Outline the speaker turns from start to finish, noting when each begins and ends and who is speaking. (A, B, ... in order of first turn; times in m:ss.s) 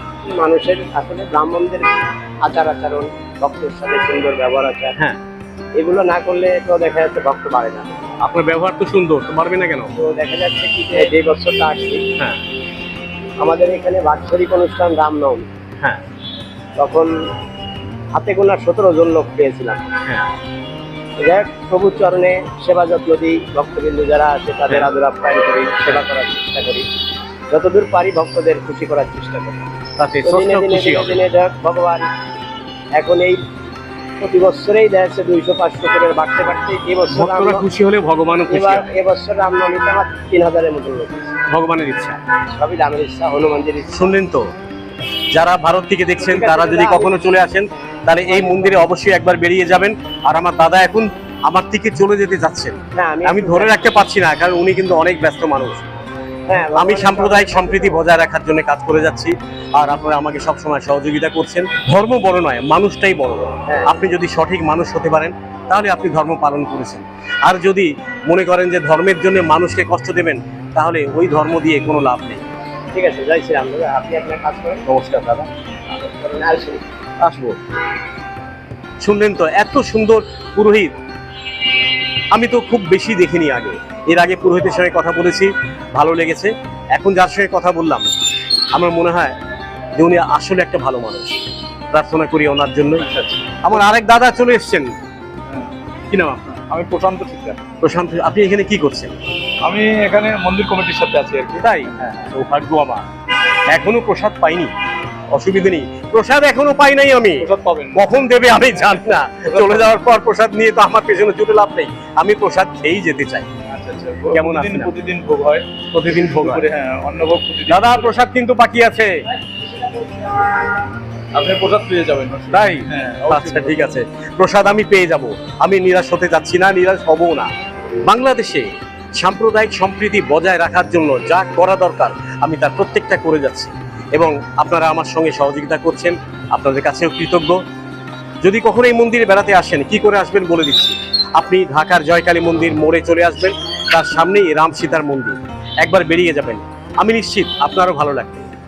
0:00.3-0:05.0 A
0:05.8-0:07.9 A
0:08.2-0:09.9 B
0:10.0-0:12.0 A
0:13.4-0:15.5 A
0:16.8-0:17.1 A
0:18.1-0:19.8 A
0:21.2-0:26.9 A
0:27.5-0:29.6 A
0:30.0-0:31.2 B
0:30.2-0:32.1 A
0:33.0-0:33.4 A
0:34.2-0:37.7 A
0:37.1-0:38.9 B
0:38.5-0:41.4 A
0:41.5-0:42.2 B
0:42.6-0:44.1 A
0:43.9-0:44.5 B
0:45.3-0:55.9 B
0:46.2-0:47.2 A
0:48.3-0:48.9 A
0:52.9-0:53.8 A
0:56.5-0:58.0 A
0:56.8-1:12.4 B
1:03.7-1:03.9 A
1:12.9-1:14.8 A
1:14.9-1:15.5 B
1:15.9-1:16.8 A
1:17.2-1:17.6 B
1:19.0-1:20.9 B
1:22.3-1:28.1 B
1:28.7-1:29.4 B
1:30.0-1:33.1 B
1:33.0-1:33.6 C
1:33.6-1:34.9 B
1:36.1-1:36.5 B
1:36.5-1:37.6 C
1:37.8-1:39.1 B
1:39.6-1:42.3 C
1:41.6-1:43.1 B
1:43.7-1:44.7 B
1:45.3-1:53.5 B
1:47.4-1:49.0 C
1:49.5-1:49.9 C
1:53.7-1:58.2 C
1:54.3-1:54.9 B
1:55.9-1:56.6 B
1:57.7-1:59.2 B
2:01.3-2:03.9 C
2:02.5-2:07.5 B
2:08.0-2:17.6 B
2:18.4-2:28.5 B